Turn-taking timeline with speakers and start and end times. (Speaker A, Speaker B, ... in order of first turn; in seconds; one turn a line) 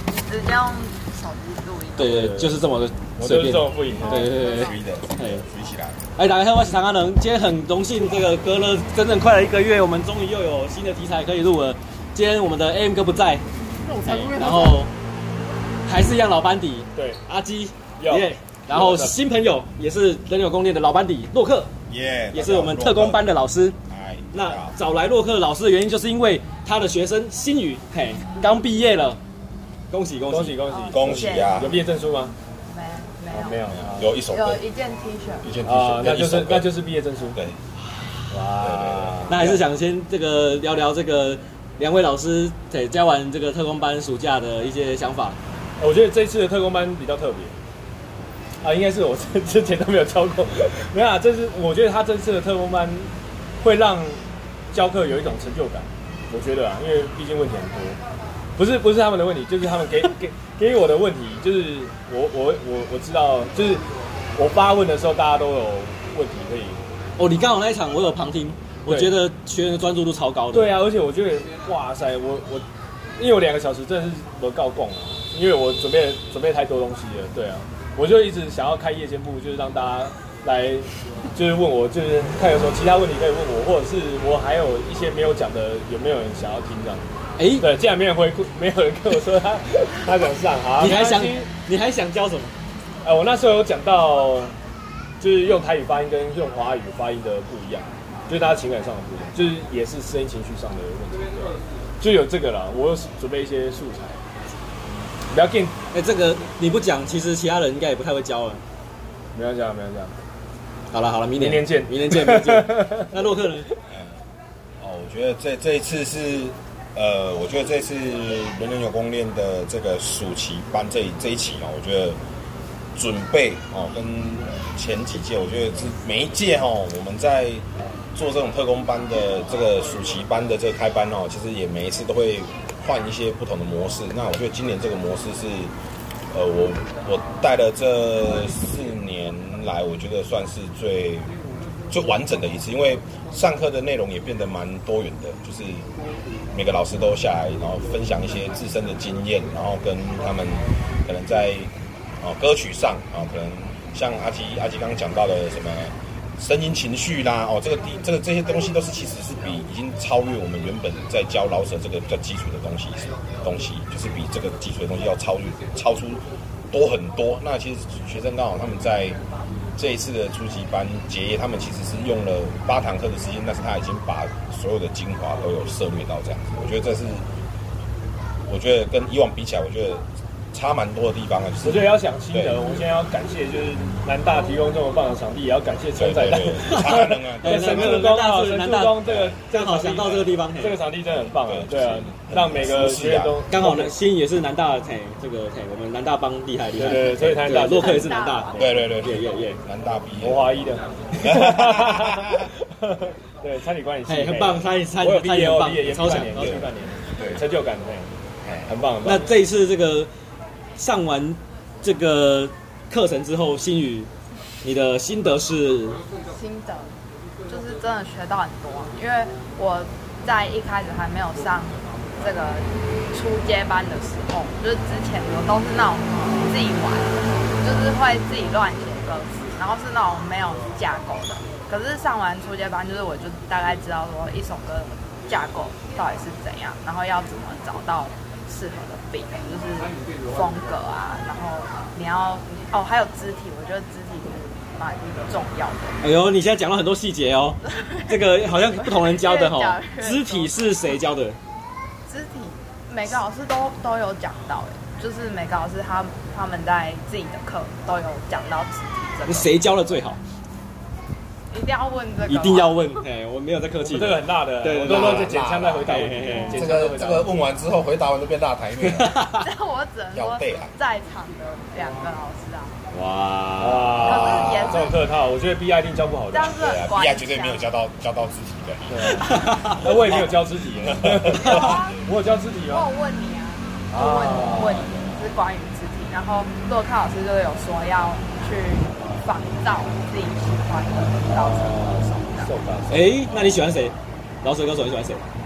Speaker A: 0.2-2.2
Speaker B: 2.0-5.5
Speaker C: 2.1-2.6
Speaker C: 3.2-4.2
Speaker A: 4.0-4.8
Speaker D: 4.5-6.0
Speaker B: 6.2-14.9
Speaker B: 15.9-21.7
Speaker C: 16.9-17.2
Speaker C: 18.0-19.1
Speaker D: 21.9-23.2
Speaker B: 22.3-23.8
Speaker D: 23.9-24.8
Speaker B: 24.3-29.2
Speaker B: 29.9-30.6
Speaker C: 30.3-32.4
Speaker A: 30.6-31.7
Speaker D: 30.9-31.8
Speaker A: 32.7-33.7
Speaker C: 33.3-34.1
Speaker D: 33.8-34.7
Speaker A: 34.2-35.5
Speaker D: 35.4-36.8
Speaker C: 35.6-37.4
Speaker C: 38.3-39.6
Speaker D: 38.6-39.4
Speaker B: 39.3-45.4
Speaker C: 45.8-47.5
Speaker C: 48.6-58.0
Speaker C: 58.6-63.8
Speaker C: 64.4-66.8
Speaker B: 67.2-70.7
Speaker C: 68.9-69.1
Speaker C: 70.5-72.7
Speaker C: 73.2-87.0
Speaker B: 87.4-87.7
Speaker C: 87.6-91.5
Speaker B: 90.8-92.5
Speaker C: 93.0-94.6
Speaker C: 95.2-104.2
Speaker C: 105.3-105.8
Speaker B: 105.9-108.6
Speaker C: 109.3-110.1
Speaker B: 110.9-113.7
Speaker C: 111.4-113.1
Speaker D: 114.8-122.2
Speaker D: 123.0-135.7
Speaker D: 136.3-141.3
Speaker D: 141.9-145.9
Speaker D: 146.5-169.2
Speaker D: 169.8-177.3
Speaker D: 178.5-182.8
Speaker C: 181.6-193.9
Speaker D: 185.9-188.1
Speaker B: 186.7-190.8
Speaker D: 189.1-189.3
Speaker D: 191.3-193.4
Speaker B: 193.5-199.6
Speaker C: 196.7-198.1
Speaker A: 197.4-198.9
Speaker D: 198.6-202.5
Speaker C: 200.2-208.1
Speaker B: 204.1-206.6
Speaker D: 206.3-207.4
Speaker D: 208.4-208.8
Speaker C: 208.7-209.3
Speaker B: 209.0-210.1
Speaker B: 210.8-214.1
Speaker B: 214.6-216.0
Speaker A: 216.3-246.0
Speaker B: 246.0-251.4
Speaker A: 247.7-250.5
Speaker A: 252.1-259.5
Speaker B: 259.3-260.2
Speaker A: 261.5-263.0
Speaker B: 262.3-266.6
Speaker C: 263.8-267.4
Speaker D: 264.9-269.3
Speaker B: 268.8-269.5
Speaker A: 269.4-272.8
Speaker D: 270.1-270.7
Speaker B: 272.9-274.6
Speaker C: 273.6-276.6
Speaker A: 274.0-275.1
Speaker D: 274.2-274.9
Speaker A: 276.3-277.7
Speaker D: 276.5-281.9
Speaker C: 278.9-282.9
Speaker B: 279.2-279.8
Speaker A: 281.4-282.0
Speaker A: 282.7-292.5
Speaker C: 283.9-284.9
Speaker C: 291.3-293.2
Speaker B: 292.9-295.3